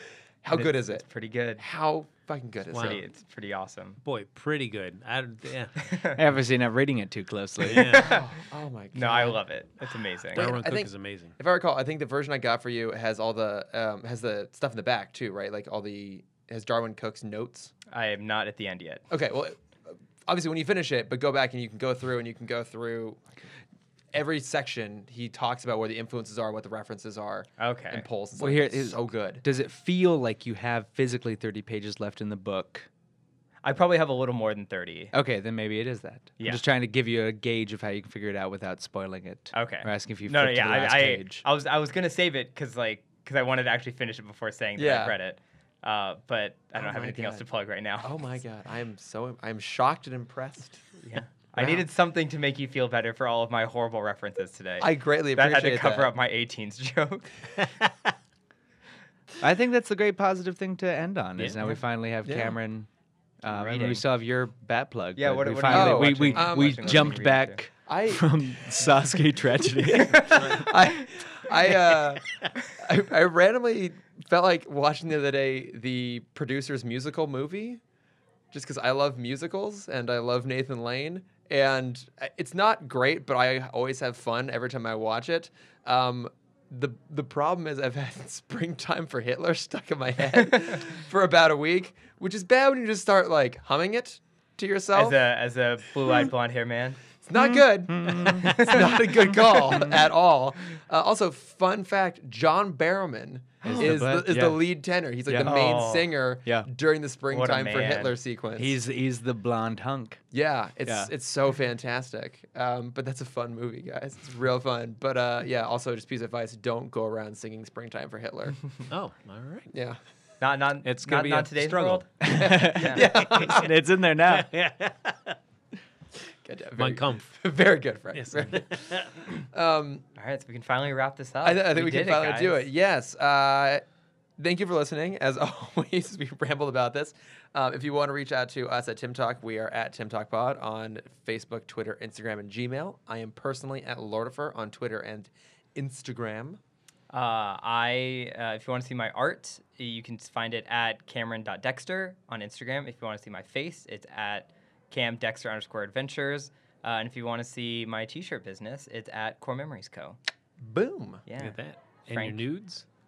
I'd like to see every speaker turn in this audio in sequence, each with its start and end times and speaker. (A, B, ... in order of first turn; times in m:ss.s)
0:00.4-0:01.1 A
0:00.5-0:01.6 B
0:01.6-0:03.0 A
0:02.7-0:03.0 C
0:02.7-0:04.0 B
0:04.0-0:05.8 C
0:05.8-0:06.2 B
0:06.1-0:08.1 D
0:07.6-0:08.2 C
0:07.9-0:08.3 B
0:08.0-0:09.4 A
0:08.9-0:10.5 B
0:10.3-0:17.7 A
0:10.4-0:11.4 C
0:17.9-0:19.1 B
0:19.1-0:23.3 A
0:24.1-0:29.4 A
0:27.6-0:28.1 B
0:28.4-0:32.9 D
0:33.6-0:35.1 B
0:35.1-0:41.4 D
0:39.5-0:48.1 B
0:44.8-0:45.2 A
0:46.8-0:47.4 A
0:48.0-0:50.8 A
0:51.0-0:57.5 B
0:51.6-0:51.8 A
0:54.8-0:56.1 A
0:59.4-1:02.9 D
1:01.4-1:01.7 C
1:02.2-1:02.6 A
1:03.4-1:10.6 D
1:03.5-1:04.0 B
1:05.2-1:07.6 B
1:05.7-1:07.2 A
1:07.9-1:09.0 A
1:09.8-1:17.8 A
1:10.2-1:10.7 C
1:18.5-1:35.2 A
1:34.9-1:37.0 B
1:37.2-1:48.8 A
1:37.3-1:39.9 D
1:38.4-1:38.9 B
1:43.6-1:44.6 D
1:45.3-1:45.8 D
1:45.4-1:46.1 B
1:47.3-1:48.2 B
1:48.6-1:50.2 D
1:50.3-1:58.8 A
1:50.8-1:51.1 D
1:58.9-1:59.7 C
1:59.7-2:00.0 A
2:00.4-2:03.0 B
2:00.8-2:02.1 C
2:02.2-2:04.5 D
2:02.3-2:03.7 A
2:03.0-2:05.4 C
2:06.4-2:10.1 A
2:06.8-2:07.4 C
2:08.1-2:09.2 C
2:10.2-2:12.6 B
2:11.4-2:13.8 A
2:14.4-2:26.6 A
2:27.1-2:40.2 B
2:40.6-2:41.2 A
2:41.3-2:42.5 B
2:41.4-2:42.8 C